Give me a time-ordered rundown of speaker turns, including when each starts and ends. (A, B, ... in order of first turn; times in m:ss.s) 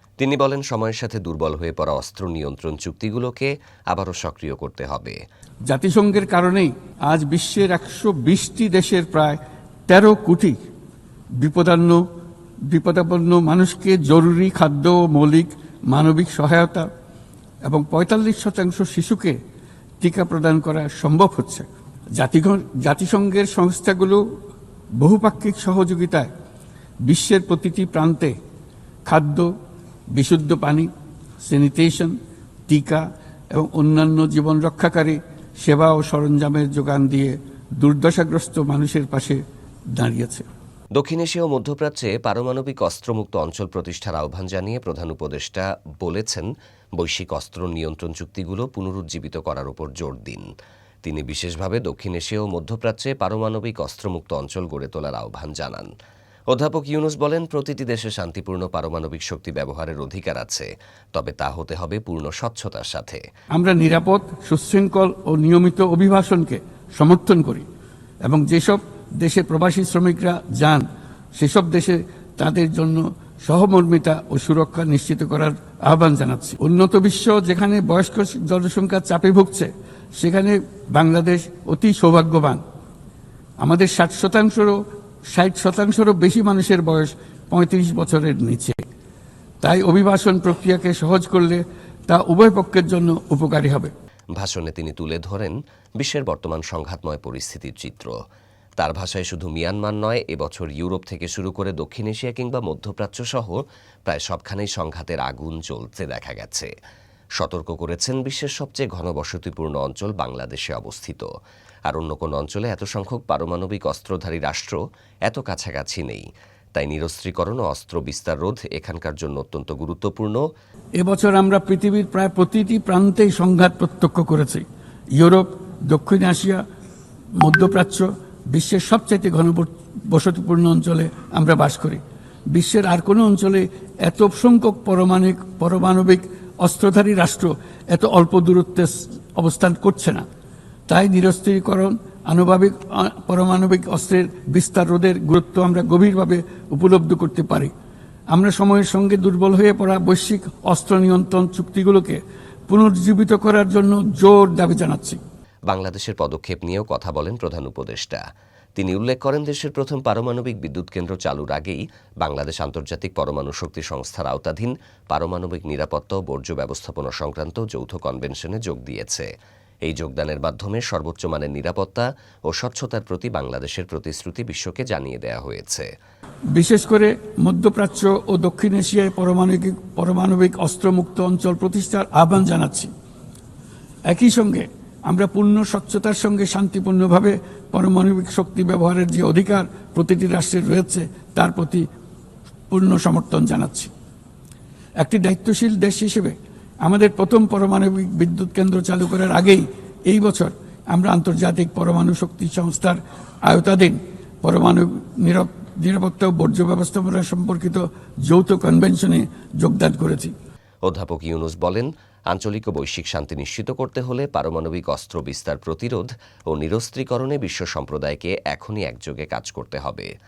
0:00.2-0:05.2 A
0:05.7-0:10.6 B
0:11.4-0:12.0 B
0:12.7-0:16.9 B
0:17.6-0:19.4 B
0:20.0-0:21.7 B
0:22.2-0:24.2 B
0:25.0-0:26.3 B
0:27.0-0:28.3 B
0:29.0-0:29.5 B
0:30.1-0:30.9 B
0:31.4-0:32.1 B
0:32.7-0:39.4 B
0:40.0-0:40.4 B
0:40.9-0:50.4 A
0:51.0-0:55.9 A
0:56.5-1:03.2 A
1:03.5-1:07.6 B
1:08.2-1:10.8 B
1:11.4-1:22.6 B
1:23.6-1:24.8 B
1:25.3-1:28.8 B
1:29.6-1:33.9 B
1:34.4-1:38.1 A
1:38.8-1:46.7 A
1:47.4-1:51.2 A
1:51.9-2:00.4 A
2:01.0-2:04.6 B
2:05.2-2:06.6 B
2:07.4-2:12.0 B
2:12.5-2:20.2 B
2:20.9-2:27.7 B
2:28.3-2:35.2 B
2:35.7-2:38.2 A
2:38.8-2:49.3 A
2:49.8-2:55.9 A
2:56.5-3:02.9 B
3:04.1-3:11.8 B
3:12.7-3:13.9 B
3:15.0-3:30.3 B
3:30.8-3:40.1 A